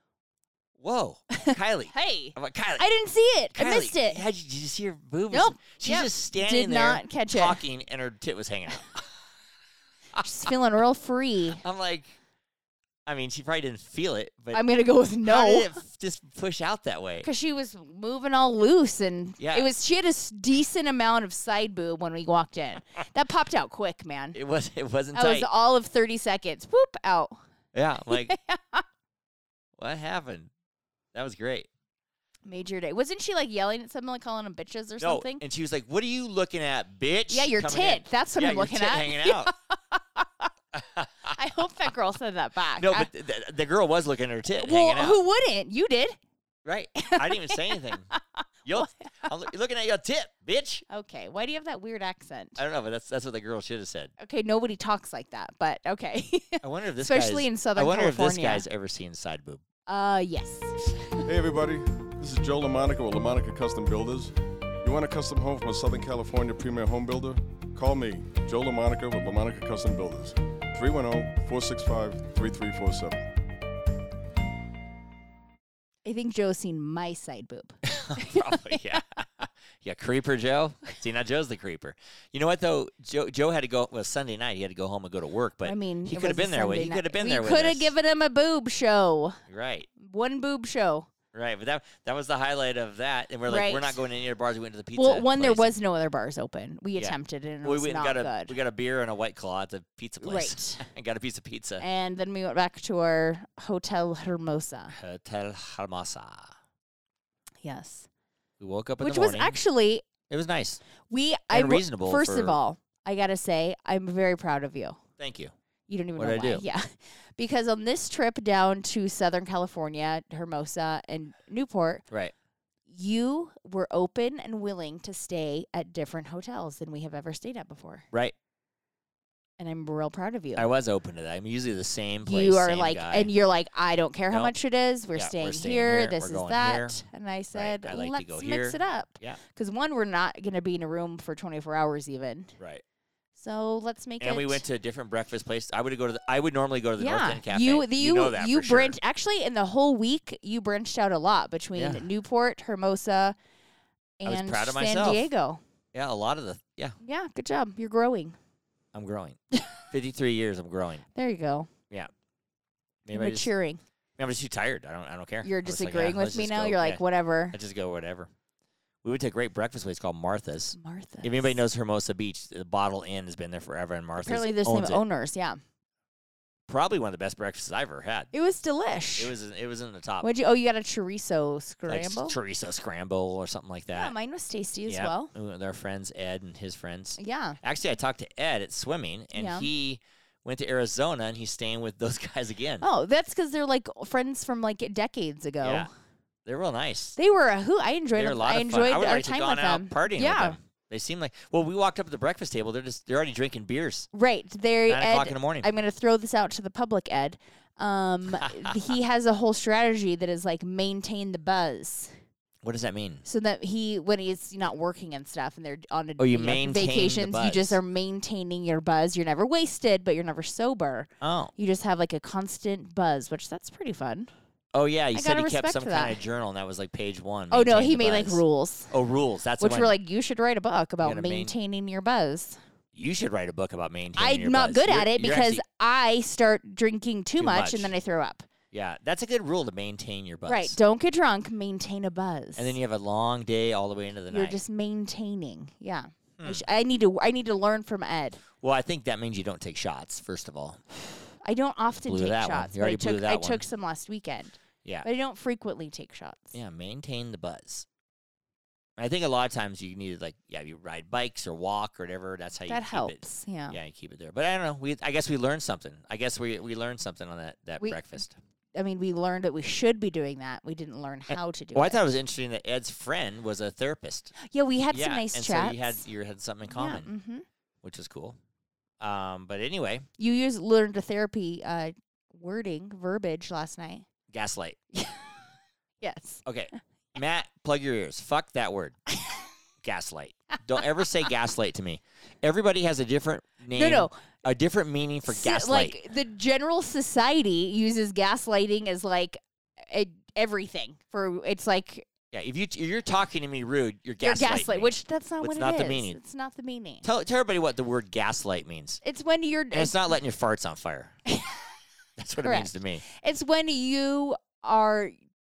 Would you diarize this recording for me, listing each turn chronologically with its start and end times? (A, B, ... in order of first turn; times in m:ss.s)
0:00.8-0:02.9 A
0:01.4-0:04.2 B
0:03.6-0:09.1 A
0:05.3-0:07.6 B
0:10.2-0:11.6 B
0:11.6-0:12.1 A
0:13.1-0:14.6 A
0:14.5-0:15.8 B
0:15.2-0:17.3 A
0:17.2-0:24.4 B
0:19.4-0:19.7 A
0:24.3-0:25.5 A
0:25.1-0:27.4 B
0:27.7-0:28.4 A
0:28.1-0:28.8 B
0:29.8-0:30.5 A
0:31.1-0:31.7 A
0:32.5-0:35.4 B
0:35.0-0:39.5 A
0:37.3-0:40.5 B
0:40.7-0:41.4 A
0:41.3-0:43.1 B
0:42.8-0:45.2 A
0:44.6-0:46.2 B
0:46.6-0:48.1 A
0:47.0-0:49.3 B
0:48.6-0:50.8 A
0:50.9-0:52.6 B
0:52.6-0:54.1 A
0:54.2-0:58.6 B
0:56.6-0:59.6 A
0:59.9-1:01.2 B
1:01.2-1:13.3 C
1:16.0-1:18.9 B
1:17.9-1:27.9 A
1:25.6-1:29.4 B
1:29.5-1:29.9 A
1:30.0-1:31.1 B
1:31.3-1:35.8 A
1:33.5-1:34.0 B
1:35.0-1:38.6 B
1:37.0-1:41.8 A
1:40.2-1:40.9 B
1:41.8-1:45.0 B
1:44.9-1:46.5 A
1:47.6-1:48.1 B
1:48.6-1:49.6 A
1:49.0-1:50.1 B
1:50.3-1:50.8 A
1:51.1-1:55.0 B
1:51.5-1:52.6 A
1:55.2-1:55.5 A
1:55.9-2:02.0 B
1:56.2-1:56.6 A
2:02.9-2:08.1 B
2:09.6-2:10.7 B
2:10.6-2:13.3 A
2:12.3-2:22.6 B
2:15.2-2:17.0 A
2:17.5-2:19.4 A
2:23.4-2:24.6 B
2:24.2-2:29.0 A
2:27.0-2:33.4 B
2:31.8-2:32.0 A
2:34.2-2:35.6 B
2:34.2-2:35.3 A
2:35.9-2:37.0 A
2:37.0-2:38.4 B
2:38.9-2:39.4 A
2:39.9-2:41.0 A
2:41.1-2:41.7 B
2:43.0-2:43.5 A
2:43.1-2:43.8 B
2:44.2-2:48.3 A
2:45.4-2:47.6 B
2:49.0-2:55.0 A
2:50.8-2:51.6 B
2:54.2-2:55.6 B
2:56.7-2:58.3 A
2:58.3-2:59.3 B
2:59.2-3:00.3 A
3:00.2-3:02.4 B
3:01.9-3:04.1 A
3:03.9-3:05.3 B
3:04.9-3:12.9 A
3:07.2-3:07.6 B
3:09.4-3:09.7 B
3:12.8-3:15.9 B
3:15.6-3:15.9 A
3:16.5-3:17.2 A
3:17.2-3:20.6 B
3:18.1-3:24.1 A
3:24.1-3:32.1 B
3:24.9-3:25.7 A
3:28.4-3:28.8 A
3:32.6-3:33.2 A
3:33.2-3:44.3 B
3:36.2-3:37.8 A
3:41.2-3:41.5 A
3:44.7-3:50.0 A
3:45.1-3:46.2 B
3:47.5-3:48.9 B
3:49.6-3:52.6 B
3:51.0-3:51.5 A
3:52.9-3:55.6 A
3:54.2-3:58.5 B
3:57.4-3:57.9 A
3:58.7-4:00.8 A
4:00.5-4:02.8 B
4:02.6-4:04.6 A
4:04.3-4:08.4 B
4:06.4-4:06.6 A
4:08.6-4:10.9 A
4:11.4-4:16.6 B
4:12.0-4:13.6 A
4:16.5-4:17.9 A
4:19.0-4:28.4 A
4:22.7-4:23.8 B
4:27.8-4:28.2 B
4:28.8-4:32.1 B
4:31.3-4:34.3 A
4:34.4-4:36.0 B
4:34.9-4:37.1 A
4:36.7-4:37.4 B
4:37.8-4:38.4 A
4:39.0-4:40.1 A
4:40.2-4:44.1 B
4:44.3-4:44.8 A
4:44.9-4:45.3 B
4:46.0-4:46.4 B
4:46.5-4:49.0 A
4:49.8-4:56.0 A
4:53.7-4:54.2 B
4:55.3-5:02.1 B
5:02.3-5:06.2 A
5:04.2-5:07.0 B
5:07.0-5:09.0 A
5:09.0-5:10.1 B
5:09.7-5:11.2 A
5:11.3-5:11.6 B
5:12.2-5:13.0 A
5:12.4-5:15.2 B